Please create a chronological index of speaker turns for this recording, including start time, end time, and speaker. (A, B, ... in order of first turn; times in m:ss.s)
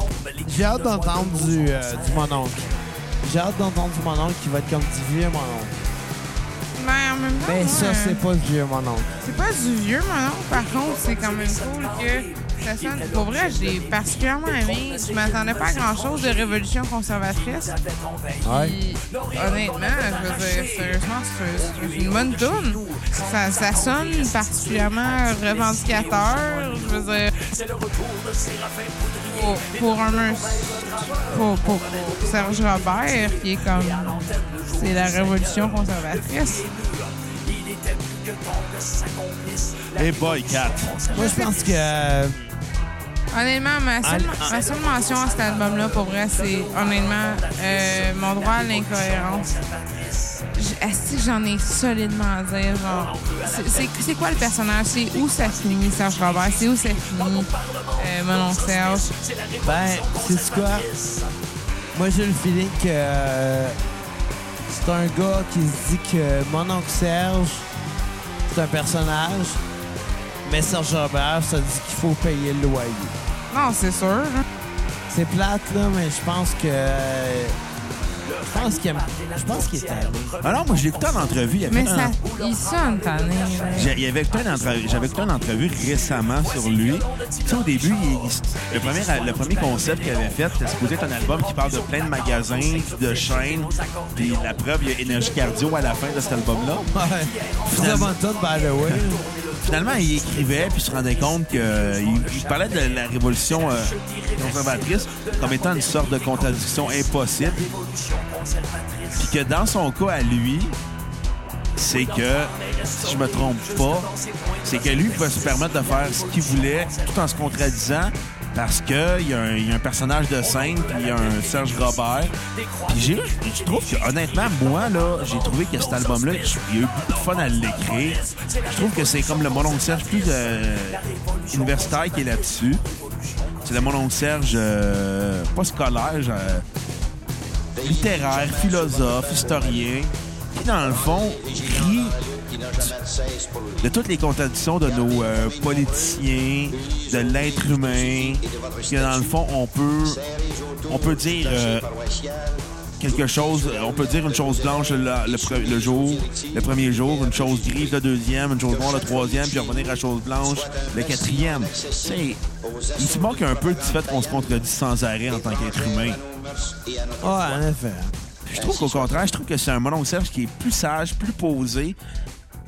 0:00.4-0:05.7 A
0:06.7-0:08.2 B
0:07.4-0:09.1 A
0:09.2-0:17.8 B
0:18.4-0:18.8 A
0:18.4-0:27.3 B
0:29.2-0:36.7 B
0:39.9-0:41.1 C
0:41.1-0:42.5 A
0:41.1-0:41.6 B
0:43.3-0:49.6 B
0:44.0-0:44.5 A
0:50.5-0:59.1 B
0:59.6-1:00.9 A
1:01.9-1:03.8 A
1:04.7-1:07.7 A
1:08.4-1:09.6 A
1:10.4-1:13.1 A
1:13.5-1:14.4 B
1:15.1-1:17.6 A
1:18.5-1:20.4 A
1:20.4-1:22.2 C
1:21.7-1:23.9 B
1:23.7-1:36.9 C
1:36.9-1:39.2 A
1:37.7-1:38.2 C
1:38.8-1:47.7 C
1:49.1-1:50.8 C
1:51.8-1:54.1 C
1:54.6-2:02.3 C
2:02.9-2:12.8 C
2:13.6-2:16.6 C
2:17.8-2:22.2 C
2:23.8-2:30.2 C
2:30.8-2:31.9 C
2:33.0-2:42.4 C
2:42.9-2:46.2 C
2:47.2-2:48.1 A
2:48.4-2:52.0 C